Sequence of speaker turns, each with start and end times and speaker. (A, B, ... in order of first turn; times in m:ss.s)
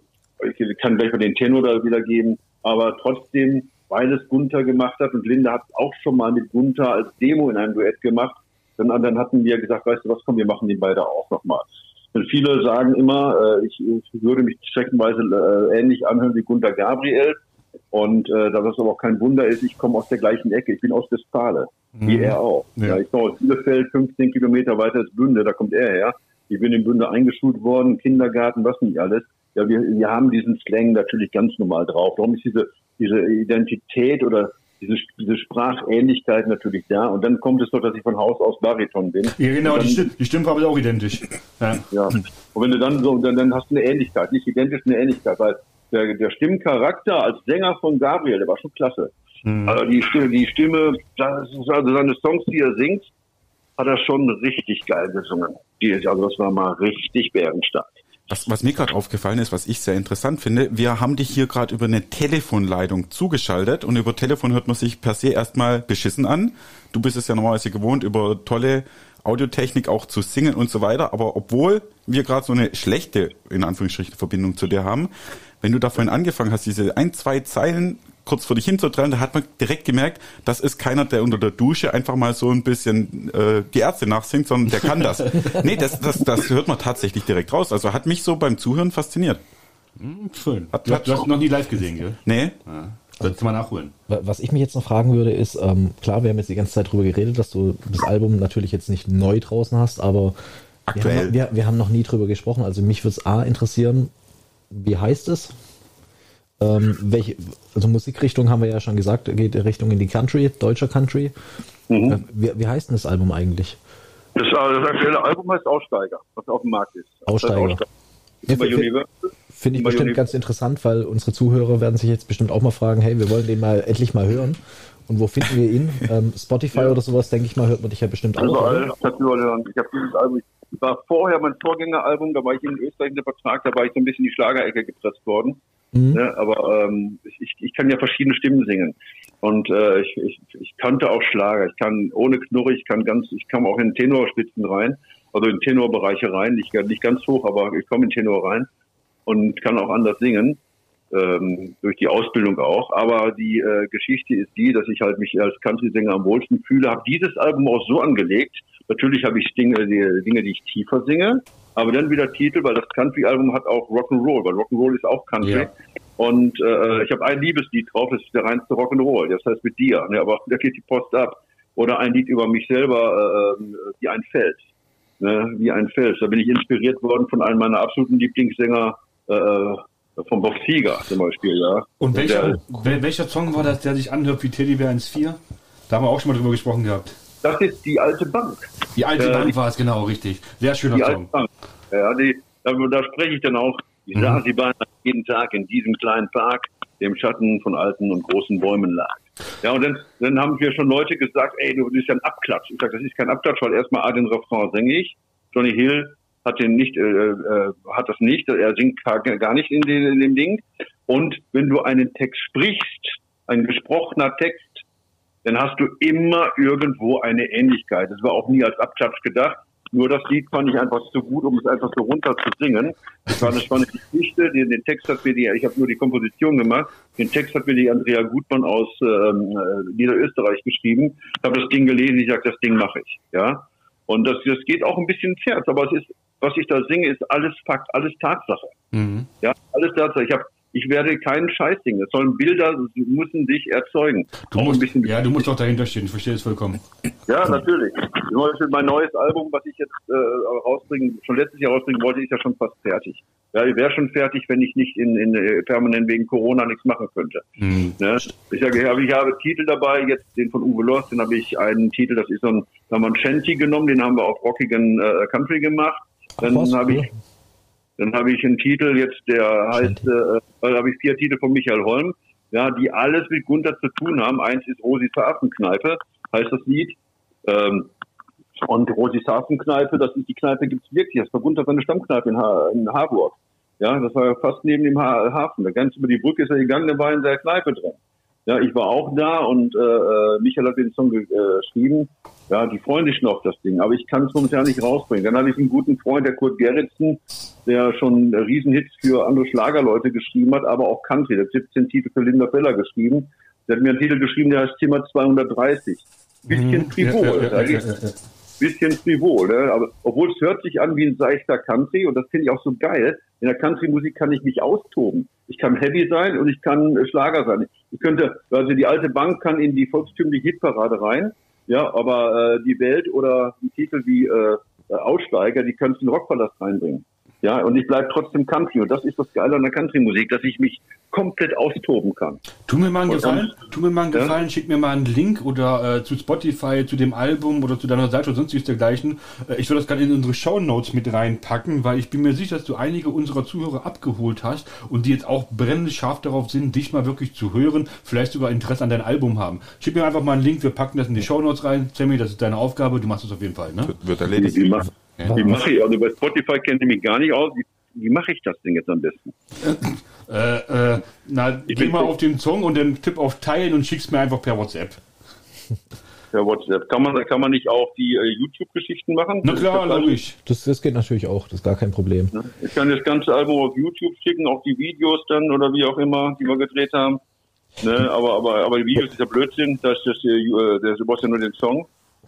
0:00.4-0:17.4 A
0:17.9-0:40.1 A
0:21.9-0:23.0 B
0:39.4-0:41.8 B
0:41.9-0:49.1 A
0:49.4-0:49.8 B
0:49.7-0:53.1 A
0:53.8-0:58.0 A
0:58.3-1:29.4 C
1:25.2-1:25.5 B
1:30.0-1:33.9 B
1:30.7-1:31.3 C
1:32.2-1:32.5 C
1:34.1-1:40.3 D
1:40.9-1:41.3 C
1:40.9-1:44.1 D
1:44.7-1:45.5 D
1:46.6-1:51.3 D
1:51.9-1:52.2 A
1:52.1-1:53.8 D
1:54.4-1:57.8 A
1:57.2-1:57.8 D
1:58.4-2:00.3 A
1:58.5-1:58.9 D
1:59.5-2:08.9 D
2:08.4-2:15.6 A
2:15.9-2:16.2 D
2:16.1-2:28.7 A
2:29.2-2:30.6 A
2:31.1-2:54.6 A
2:45.4-2:45.7 B
2:55.2-3:02.6 A
3:02.0-3:07.2 B
3:07.4-3:09.5 A
3:09.0-3:11.3 B
3:10.9-3:34.8 A
3:35.4-3:58.7 A
3:58.9-3:59.3 B
3:59.4-4:05.4 A
4:04.5-4:06.8 B
4:07.3-4:17.4 A
4:17.6-4:18.0 B
4:18.0-4:27.1 A
4:26.4-4:27.1 D
4:28.0-4:37.9 A
4:38.6-5:07.9 A
5:06.5-5:08.1 B
5:08.6-5:32.4 A
5:32.6-5:54.0 B
5:33.1-5:33.5 A
5:53.9-5:54.8 C
5:54.3-5:59.3 A
5:55.2-5:55.4 B
5:59.6-6:05.0 B
6:01.7-6:02.1 A
6:06.3-6:10.2 A
6:09.4-6:10.4 B
6:10.4-6:12.3 D
6:12.3-6:17.2 A
6:17.8-6:21.9 A